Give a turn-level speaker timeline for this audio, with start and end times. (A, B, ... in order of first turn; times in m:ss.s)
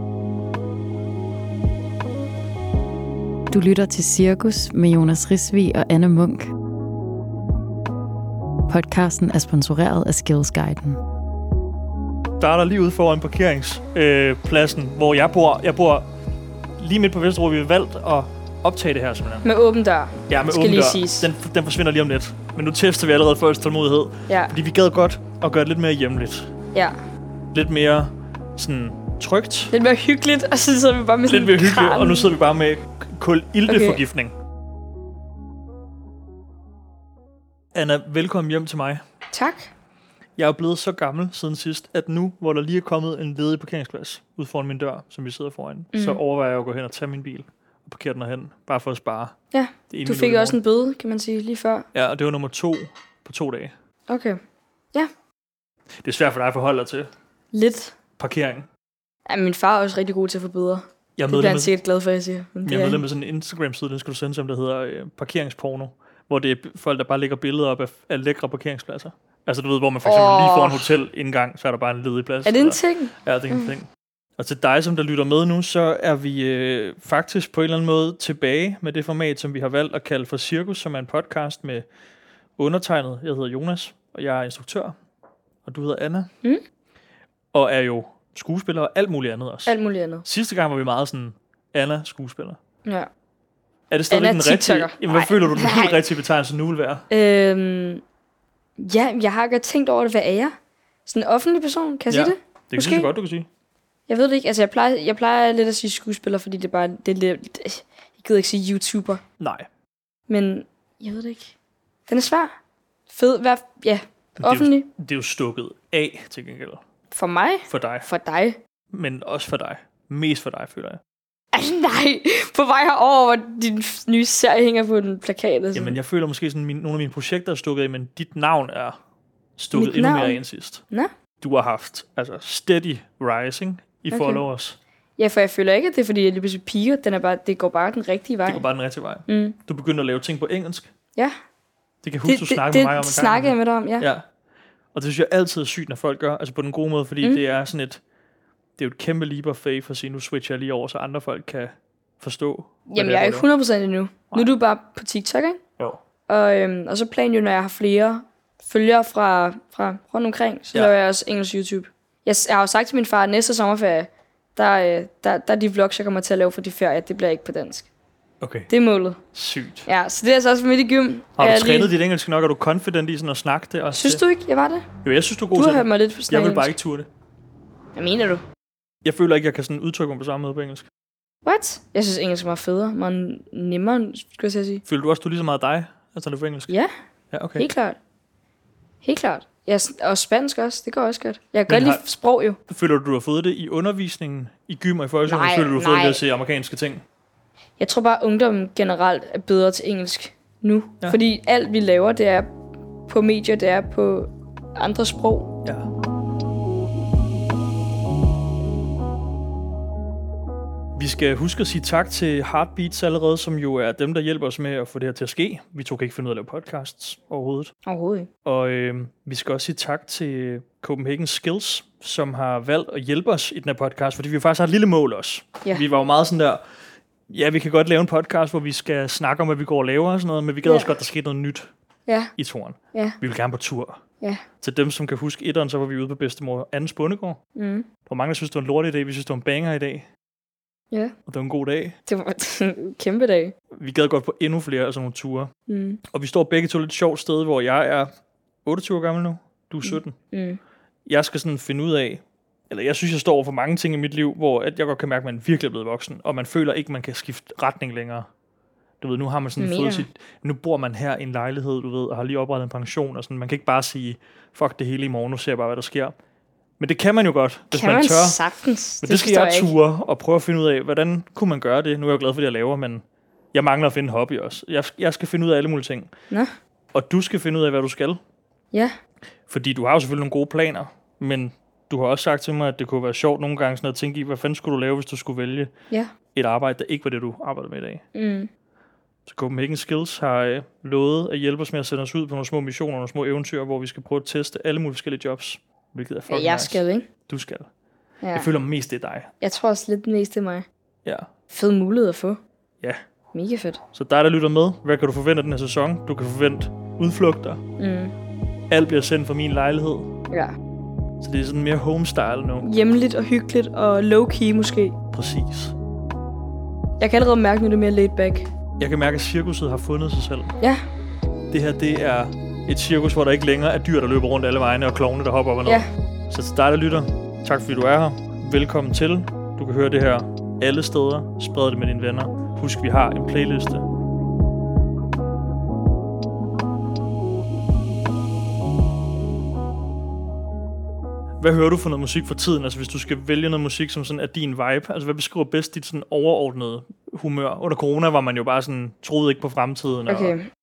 0:03.5-0:06.5 A
0:08.7-0:11.0 A
0:12.4-0:16.0 B
0:16.8-0:19.5 B
0:19.4-0:21.3 C
0:20.3-0:26.5 B
0:24.3-0:24.5 C
0:27.5-0:29.7 B
0:29.7-0:32.3 C
0:31.3-0:34.3 B
0:33.7-0:34.0 C
0:37.8-0:39.0 B
0:39.3-0:39.7 C
0:40.4-0:49.4 B
0:45.9-0:46.2 C
0:49.5-0:51.9 C
0:49.9-0:50.6 B
0:51.9-0:53.7 B
0:54.1-0:54.4 C
0:56.0-0:57.1 B
0:57.5-0:58.0 C
0:58.2-0:58.7 B
0:59.3-1:03.0 C
1:01.2-1:01.7 B
1:02.7-1:21.8 B
1:10.0-1:10.9 C
1:12.5-1:13.7 C
1:22.6-1:25.0 B
1:25.6-1:26.3 B
1:27.5-1:32.6 B
1:29.7-1:30.3 C
1:32.8-1:33.1 C
1:33.9-1:37.1 B
1:34.1-1:36.0 C
1:37.1-1:38.0 C
1:38.8-1:40.5 C
1:41.1-1:43.1 C
1:42.1-1:43.5 B
1:44.1-1:49.2 C
1:49.4-1:49.7 B
1:50.3-1:51.5 C
1:52.1-1:52.5 C
1:53.1-1:54.9 C
1:54.4-1:56.8 B
1:57.1-1:58.6 C
1:57.7-1:58.1 B
1:58.9-2:01.0 B
2:01.5-2:06.0 C
2:05.7-2:09.0 B
2:09.6-2:10.8 B
2:09.7-2:10.4 C
2:11.4-2:14.8 B
2:14.1-2:14.4 C
2:15.2-2:18.6 C
2:18.5-2:20.9 B
2:19.3-2:19.6 C
2:22.0-2:24.3 B
2:22.2-2:24.1 C
2:24.9-2:28.0 B
2:28.8-2:33.5 B
2:32.9-2:35.6 C
2:36.3-2:47.9 C
2:48.4-2:48.7 B
2:48.7-2:49.2 C
2:49.3-2:49.9 B
2:49.9-2:51.9 C
2:51.4-2:54.2 B
2:53.9-2:54.9 C
2:55.0-2:57.1 B
2:55.5-2:56.7 C
2:58.0-2:58.4 C
2:59.0-3:00.9 B
3:01.4-3:04.8 C
3:04.8-3:06.7 B
3:07.3-3:07.7 B
3:07.6-3:08.0 C
3:09.0-3:12.6 C
3:11.7-3:12.0 B
3:12.7-3:17.0 B
3:15.3-3:16.2 C
3:17.8-3:22.5 C
3:23.1-3:25.6 C
3:31.0-3:37.7 B
3:37.9-3:38.3 C
3:38.4-3:46.6 B
3:47.3-3:51.7 B
3:50.6-3:51.0 C
3:52.1-3:52.3 C
3:52.4-3:54.0 B
3:52.9-3:53.2 C
3:54.6-3:57.4 B
3:57.6-3:57.9 C
3:58.1-4:00.1 B
4:01.3-4:02.0 B
4:02.1-4:03.6 C
4:03.7-4:05.5 B
4:05.7-4:06.0 C
4:06.1-4:08.1 B
4:08.6-4:10.2 B
4:09.8-4:10.6 C
4:11.1-4:18.3 B
4:19.0-4:26.1 B
4:19.6-4:20.1 C
4:26.8-4:28.4 B
4:27.7-4:29.7 C
4:29.0-4:33.0 B
4:33.5-4:36.1 B
4:36.9-4:38.2 B
4:39.5-4:45.7 B
4:46.4-4:48.0 B
4:48.1-4:48.5 C
4:49.3-4:57.7 B
4:56.3-4:57.1 C
4:58.2-4:58.5 C
4:58.3-4:59.3 B
4:59.4-5:00.7 C
5:01.0-5:01.3 B
5:01.5-5:02.4 C
5:03.3-5:03.8 C
5:03.9-5:07.6 B
5:07.8-5:08.1 C
5:08.7-5:10.2 B
5:10.3-5:10.6 C
5:11.2-5:12.7 B
5:12.6-5:15.0 C
5:15.1-5:15.8 B
5:17.0-5:18.5 C
5:18.8-5:20.6 B
5:21.5-5:33.8 B
5:41.4-5:50.4 B
5:50.1-5:50.5 C